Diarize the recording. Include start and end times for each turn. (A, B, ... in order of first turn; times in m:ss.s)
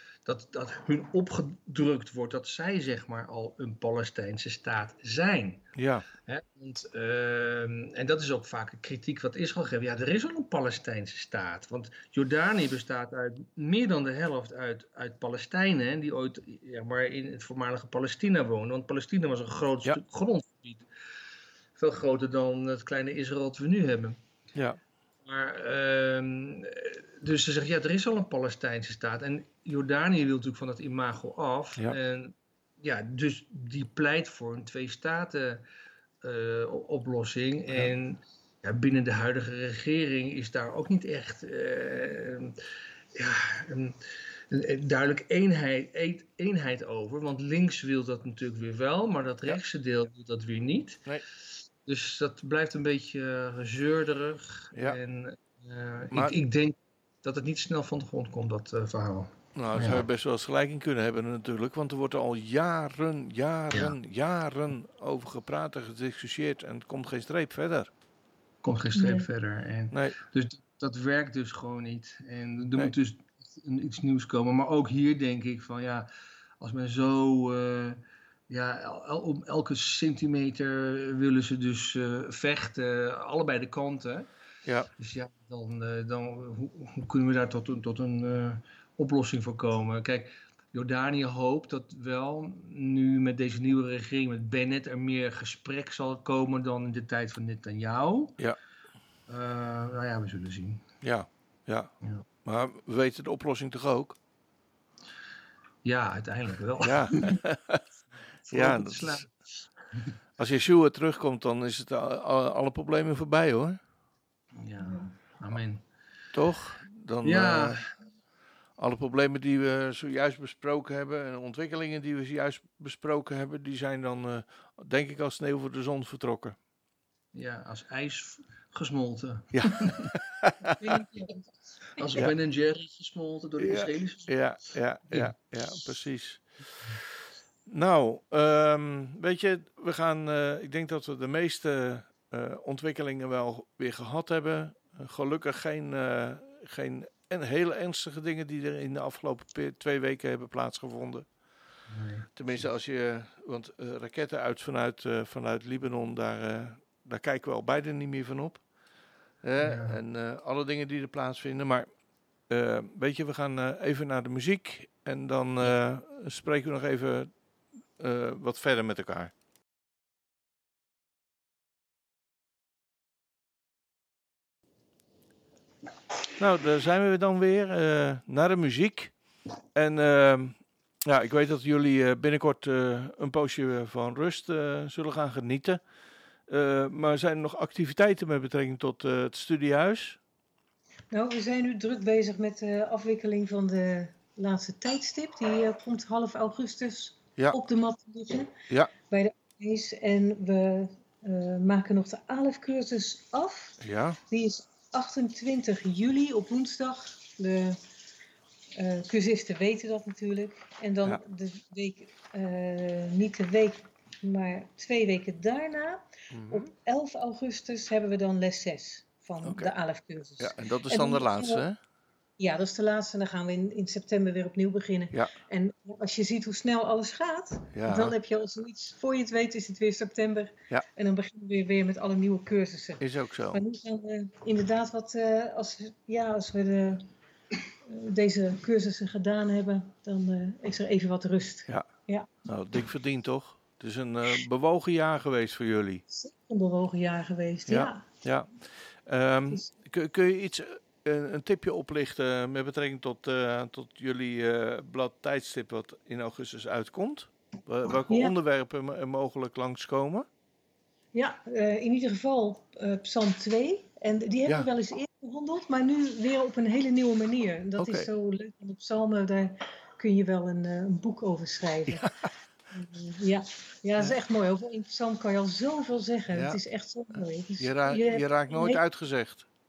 0:00.2-0:05.7 A
0:05.7-0:06.0 B
0:06.2-0:20.8 A
0:21.8-0:24.2 A
0:24.5-0:24.8 B
0:25.2-0:35.6 A
0:36.2-0:42.6 A
0:43.1-0:44.0 A
0:44.5-0:51.1 A
0:51.8-1:00.0 A
0:54.7-0:55.0 B
0:59.5-1:07.9 B
1:08.6-1:16.1 A
1:08.9-1:09.3 C
1:16.6-1:24.3 A
1:24.6-1:24.9 B
1:25.0-1:38.4 A
1:39.3-1:40.8 A
1:41.0-1:41.9 B
1:42.4-1:44.2 B
1:45.8-1:47.4 A
1:46.8-1:47.8 B
1:48.4-1:49.4 A
1:48.5-1:49.2 B
1:50.4-1:53.8 B
1:54.6-1:55.8 A
1:56.3-1:57.8 B
1:57.2-1:57.9 A
1:58.8-2:06.6 B
2:07.3-2:10.1 A
2:09.5-2:11.0 B
2:10.8-2:12.2 C
2:12.0-2:14.4 A
2:13.6-2:16.4 B
2:17.7-2:31.3 B
2:31.9-2:32.6 A
2:32.4-2:38.6 B
2:39.4-2:41.9 B
2:39.6-2:40.0 A
2:42.5-2:47.4 B
2:48.0-2:49.3 B
2:56.4-2:59.1 B
2:59.7-3:05.8 B
3:06.5-3:10.2 B
3:11.1-3:18.5 C
3:19.1-3:27.8 C
3:23.8-3:24.2 B
3:28.7-3:41.6 C
3:36.3-3:36.7 B
3:39.4-3:39.7 B
3:40.4-3:41.8 B
3:42.4-3:57.0 C
3:47.7-3:48.2 B
3:53.0-3:53.6 B
3:57.8-4:02.3 C
4:02.4-4:06.0 B
4:06.1-4:08.0 C
4:07.7-4:20.3 B
4:18.1-4:18.3 C
4:21.1-4:32.1 C
4:27.8-4:28.1 B
4:31.9-4:32.1 B
4:32.7-4:38.8 C
4:36.3-4:36.6 B
4:37.6-4:39.4 B